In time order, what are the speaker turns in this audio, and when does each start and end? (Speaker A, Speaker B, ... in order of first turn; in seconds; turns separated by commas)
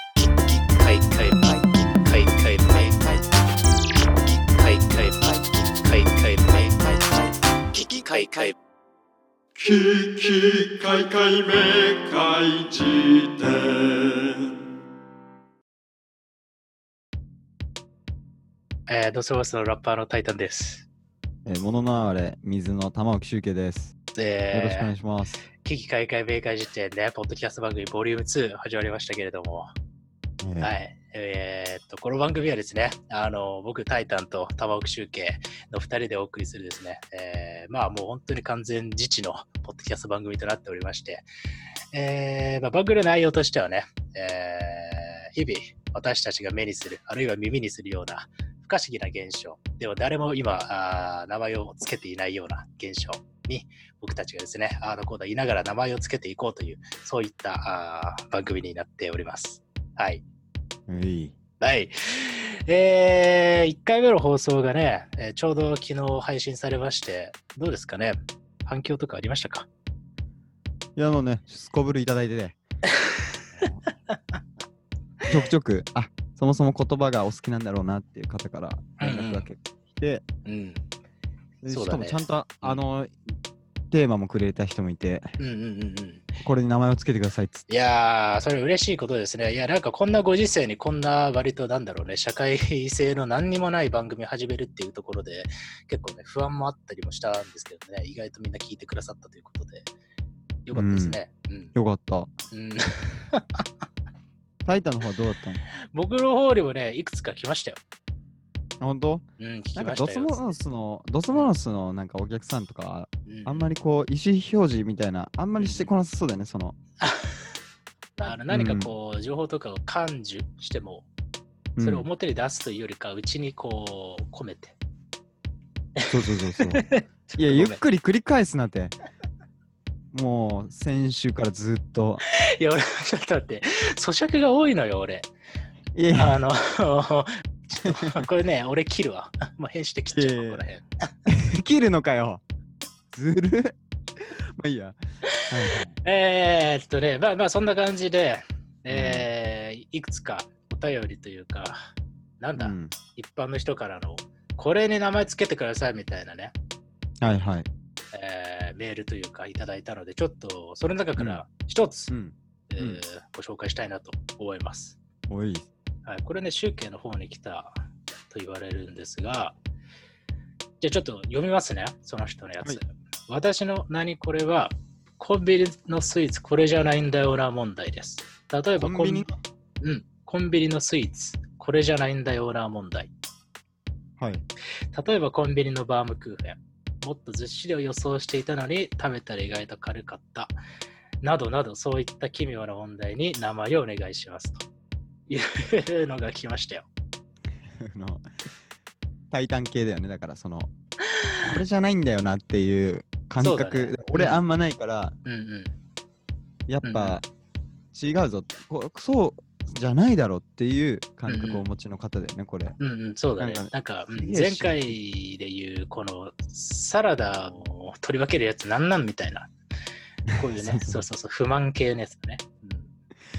Speaker A: 0.5-3.2, Speaker A: 4.3-7.0, Speaker A: 7.7-8.5, Speaker B: 9.6-14.4, Speaker A: 18.9-20.9, Speaker C: 21.4-23.9, Speaker A: 24.1-24.9, Speaker C: 24.5-25.4, Speaker A: 25.6-29.7, Speaker C: 30.4-30.7, Speaker A: 30.6-41.2, Speaker A: 41.9-60.2, Speaker C: 60.9-61.4, Speaker A: 61.6-69.7, Speaker C: 71.0-72.6, Speaker A: 72.9-74.3, Speaker C: 73.5-73.8, Speaker C: 75.3-80.2, Speaker A: 79.0-79.4, Speaker A: 80.5-80.8, Speaker C: 81.6-83.1, Speaker A: 81.7-82.8, Speaker C: 83.9-85.3, Speaker A: 85.4-86.3, Speaker C: 86.4-87.6, Speaker A: 87.7-99.9, Speaker A: 100.6-101.7, Speaker C: 100.7-101.2, Speaker C: 101.7-102.3, Speaker A: 102.5-103.6, Speaker C: 104.6-105.6, Speaker A: 105.9-107.8, Speaker C: 108.8-116.8, Speaker A: 109.4-110.5, Speaker A: 113.3-113.7, Speaker A: 115.6-115.9, Speaker A: 117.0-117.4, Speaker A: 118.2-121.1, Speaker C: 118.3-118.9, Speaker C: 121.8-122.1, Speaker A: 121.8-124.8, Speaker A: 126.0-127.8, Speaker C: 126.1-126.8, Speaker C: 127.4-128.9, Speaker C: 130.1-132.2, Speaker A: 132.3-135.3, Speaker C: 135.9-136.4, Speaker A: 136.1-140.9, Speaker C: 137.8-138.2, Speaker C: 140.1-140.7, Speaker C: 141.3-142.4, Speaker C: 143.1-145.9, Speaker A: 145.4-151.8, Speaker C: 148.9-149.3, Speaker A: 152.4-156.5, Speaker C: 152.6-152.9, Speaker C: 157.2-157.7, Speaker A: 158.1-162.1, Speaker C: 161.2-161.4, Speaker C: 162.1-163.0, Speaker A: 162.7-165.0, Speaker C: 165.3-165.7, Speaker A: 166.1-169.6, Speaker A: 170.8-179.2, Speaker C: 178.8-179.4, Speaker A: 179.8-183.1, Speaker C: 184.2-184.4, Speaker A: 184.9-190.5, Speaker A: 191.2-194.7, Speaker A: 195.3-196.9, Speaker C: 197.7-198.3, Speaker C: 199.3-200.7, Speaker C: 201.4-205.2, Speaker A: 203.4-204.4, Speaker A: 205.2-205.7, Speaker C: 206.7-207.2, Speaker A: 206.8-207.2, Speaker C: 207.9-212.8, Speaker A: 211.3-211.6, Speaker A: 212.8-219.5, Speaker C: 213.4-215.0, Speaker A: 220.3-222.9, Speaker C: 220.5-221.0